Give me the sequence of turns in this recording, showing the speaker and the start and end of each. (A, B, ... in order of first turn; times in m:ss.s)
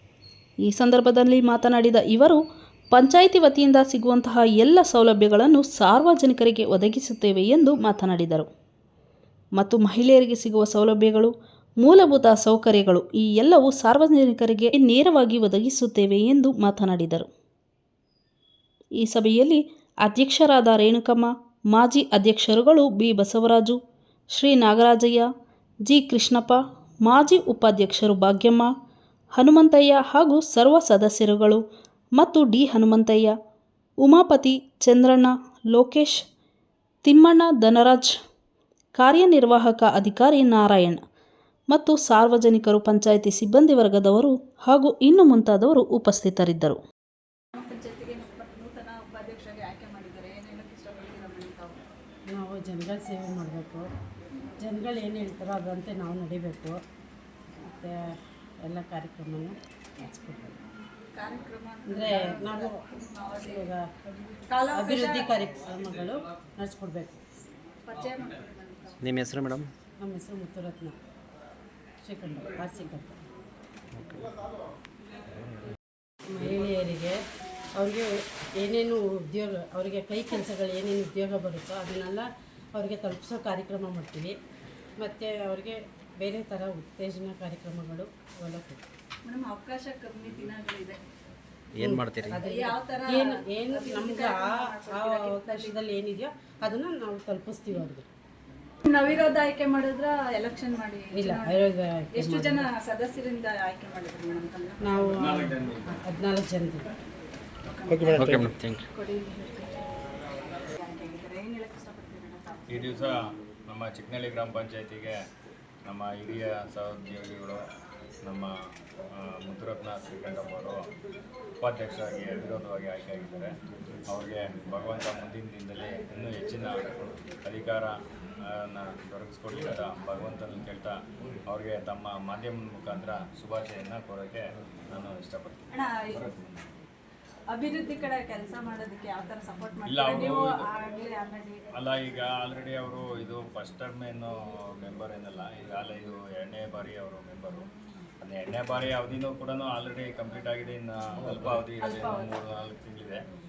0:00.6-0:02.4 A
0:02.9-0:08.5 A
0:09.6-0:17.3 A
0:19.0-0:23.8 A
0:24.3-0:25.3 A
0:25.8-0:28.7 A
0:29.3-0:31.6 A
0:32.2-0:33.3 A
0:34.0-0:36.2 A
0:37.0-0:38.2 A
0:39.0-0:41.0 A
0:41.7-0:46.8 A
0:47.5-0:51.8 B
0:52.3-0:53.9 C
0:54.6-0:56.8 C
0:57.6-0:58.0 C
0:58.6-1:00.6 C
1:01.1-1:03.7 B
1:01.9-1:02.8 C
1:03.4-1:03.8 C
1:04.5-1:05.3 B
1:04.7-1:07.2 C
1:07.8-1:09.0 B
1:09.0-1:09.7 D
1:10.0-1:11.0 C
1:12.0-1:13.2 C
1:16.3-1:17.2 C
1:17.8-1:24.4 C
1:25.0-1:28.8 C
1:29.2-1:31.0 B
1:31.7-1:32.4 D
1:31.8-1:38.1 C
1:32.2-1:35.8 B
1:38.8-1:45.3 B
1:41.1-1:42.7 C
1:44.8-1:46.9 C
1:45.2-1:46.0 E
1:47.6-1:50.0 B
1:48.1-1:48.8 D
1:50.8-1:53.0 B
1:52.7-1:55.2 E
1:55.8-1:57.6 E
1:58.2-1:58.5 E
1:59.2-2:00.9 E
2:01.6-2:03.6 E
2:04.1-2:07.9 E
2:08.4-2:16.7 E
2:15.7-2:16.2 B
2:17.5-2:21.6 B
2:19.8-2:20.6 E
2:21.7-2:27.7 E
2:28.2-2:33.2 E
2:31.8-2:32.3 B